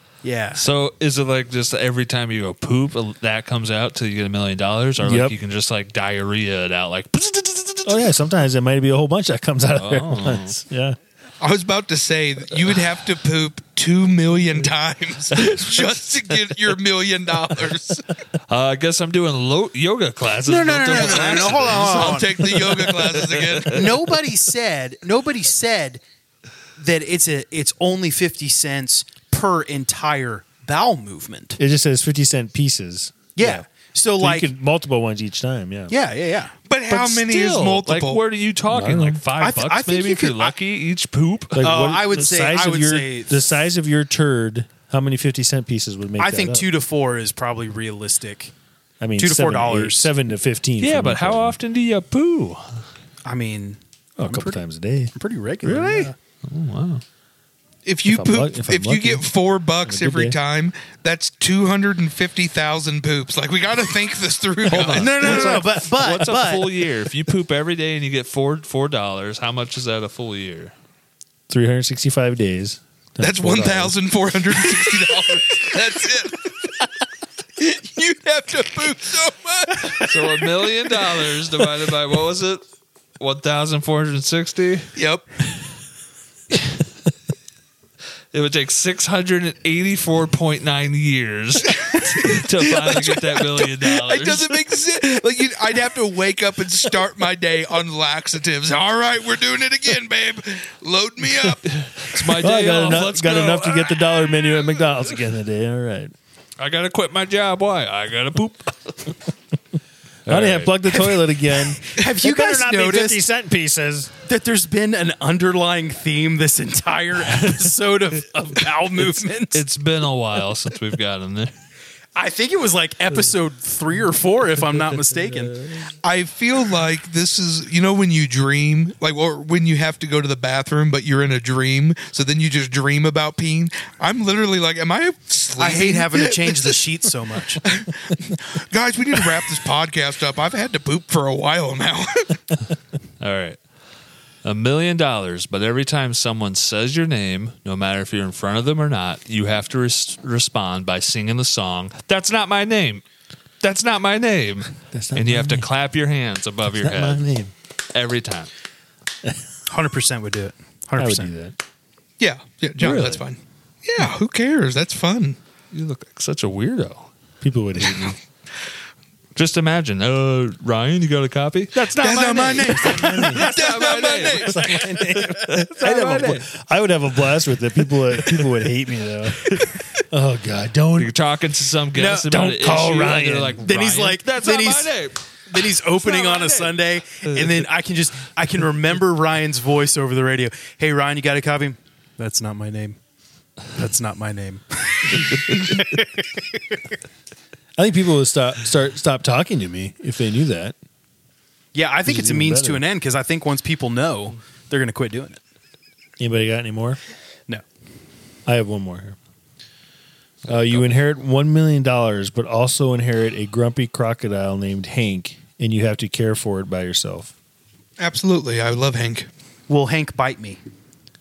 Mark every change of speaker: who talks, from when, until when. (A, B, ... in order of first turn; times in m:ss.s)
0:00.2-0:00.6 A
0:00.6-0:08.0 B
0:05.0-0:05.4 C
0:07.9-0:11.0 C
0:09.8-0:10.6 B
0:11.4-0:18.0 D
0:18.5-0:23.6 B
0:20.5-0:22.5 A
0:20.9-0:23.9 D
0:23.7-0:26.0 A
0:26.8-0:31.6 A
0:31.6-0:33.7 C
0:33.4-0:34.5 A
0:34.2-0:35.9 C
0:35.9-0:36.5 A
0:36.7-0:38.2 D
0:36.9-0:41.8 B
0:38.7-0:39.2 C
0:39.4-0:40.5 A
0:41.5-0:46.7 C
0:41.6-0:43.5 A
0:46.2-0:48.5 A
0:49.0-0:51.6 C
0:49.2-0:50.1 A
0:50.8-0:52.8 B
0:53.2-0:54.6 A
0:54.2-0:55.1 C
0:55.2-0:56.1 A
0:55.6-0:57.0 B
0:55.7-0:56.1 C
0:57.8-1:05.5 D
0:58.1-0:59.3 C
0:59.8-1:00.4 C
1:04.7-1:10.7 B
1:04.7-1:06.8 A
1:11.5-1:14.0 C
1:13.2-1:16.5 D
1:17.6-1:20.2 D
1:20.0-1:22.6 B
1:23.2-1:24.9 B
1:25.0-1:25.2 D
1:28.3-1:34.6 B
1:31.8-1:41.6 D
1:41.7-1:44.1 B
1:42.4-1:46.1 C
1:46.6-1:49.2 B
1:50.3-1:51.1 B
1:50.3-1:54.1 C
1:51.8-1:53.2 A
1:54.3-1:59.6 A
1:59.5-2:01.5 B
2:02.2-2:05.6 A
2:05.4-2:05.8 C
2:06.0-2:16.8 D
2:15.6-2:17.6 A
2:17.6-2:22.4 D
2:23.2-2:23.6 B
2:24.4-2:33.0 B
2:33.6-2:37.2 B
2:34.9-2:35.7 C
2:36.7-2:37.5 C
2:37.9-2:38.5 B
2:39.7-2:41.3 A
2:41.0-2:41.6 C
2:42.2-2:45.4 D
2:42.8-2:43.2 B
2:45.7-2:47.1 B
2:47.4-2:48.2 C
2:49.4-2:56.5 B
2:51.8-2:53.6 A
2:52.0-2:54.6 D
2:52.8-2:53.5 C
2:54.3-3:01.1 C
3:01.0-3:06.8 B
3:02.0-3:02.4 A
3:02.3-3:03.6 C
3:03.6-3:05.0 A
3:05.5-3:13.0 A
3:13.8-3:16.6 A
3:17.8-3:20.8 C
3:21.7-3:25.4 A
3:22.1-3:22.8 C
3:26.2-3:27.0 C
3:28.5-3:29.2 C
3:30.5-3:30.9 B
3:30.5-3:37.3 C
3:38.0-3:39.3 D
3:39.7-3:40.6 A